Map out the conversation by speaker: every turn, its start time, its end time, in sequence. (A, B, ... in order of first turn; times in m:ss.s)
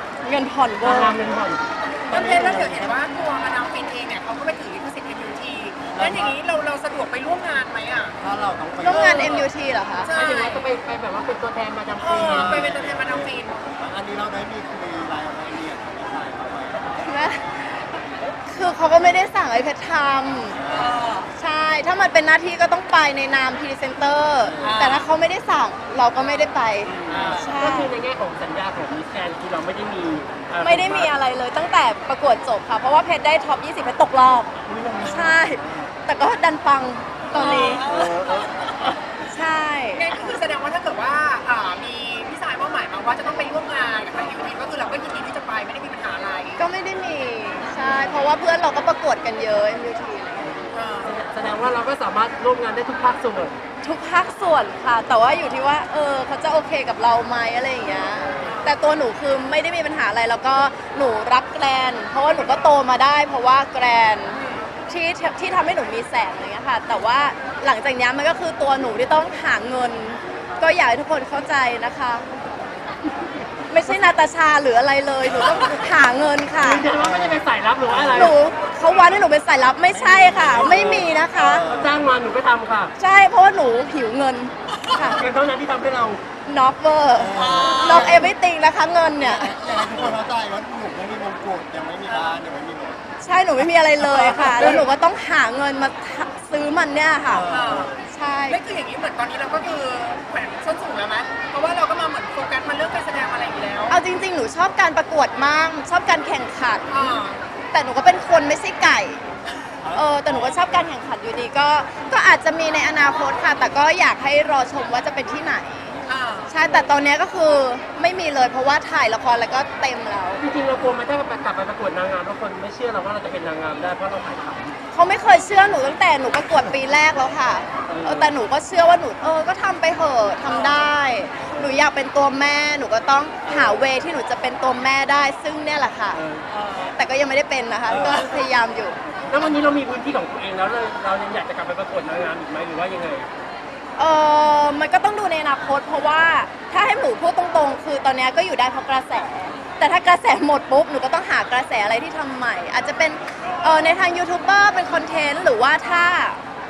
0:00.2-0:01.3 A
0:00.8-0:03.0 B
0:02.0-0:08.2 C
0:05.9-0:06.4 D
0:08.2-0:09.5 D
0:08.8-0:10.1 A
0:10.0-0:10.7 C
0:10.1-0:12.7 B
0:12.0-0:13.6 C
0:12.2-0:17.1 D
0:17.0-0:17.6 A
0:18.4-0:20.6 A
0:20.5-0:21.0 D
0:20.7-0:21.3 C
0:21.4-0:27.9 A
0:24.4-0:24.8 D
0:24.6-0:25.1 C
0:26.8-0:27.6 D
0:27.0-0:31.1 B
0:30.6-0:37.8 A
0:34.6-0:35.9 D
0:37.3-0:38.2 C
0:37.4-0:38.8 D
0:39.3-0:40.3 A
0:39.9-0:46.6 C
0:46.6-0:50.7 A
0:50.7-0:51.2 C
0:51.0-0:53.6 B
0:53.8-1:12.3 A
0:58.2-0:58.5 B
0:58.4-0:58.8 C
1:04.3-1:04.7 C
1:13.7-1:16.9 A
1:16.5-1:18.4 B
1:17.0-1:18.4 D
1:18.1-1:21.6 A
1:19.9-1:22.0 D
1:20.5-1:22.9 B
1:23.0-1:25.2 A
1:25.0-1:26.2 B
1:26.4-1:29.6 A
1:27.1-1:28.3 D
1:27.3-1:28.3 C
1:29.2-1:33.0 D
1:32.0-1:32.4 C
1:33.2-1:37.5 A
1:34.0-1:34.8 D
1:37.3-1:38.0 D
1:37.5-1:44.0 C
1:38.1-1:38.6 A
1:43.9-1:47.2 A
1:46.9-1:47.4 C
1:47.7-1:49.3 A
1:49.8-1:50.6 D
1:49.9-1:56.0 A
1:56.0-1:56.6 C
1:56.5-2:00.4 A
1:56.6-1:56.9 B
2:00.4-2:04.8 B
2:04.9-2:16.2 A
2:07.9-2:08.3 B
2:11.4-2:11.8 B
2:13.4-2:13.8 B
2:16.1-2:16.5 B
2:16.5-2:17.0 C
2:16.9-2:19.0 A
2:17.9-2:18.3 B
2:17.9-2:18.2 D
2:19.2-2:23.3 B
2:24.0-2:36.4 A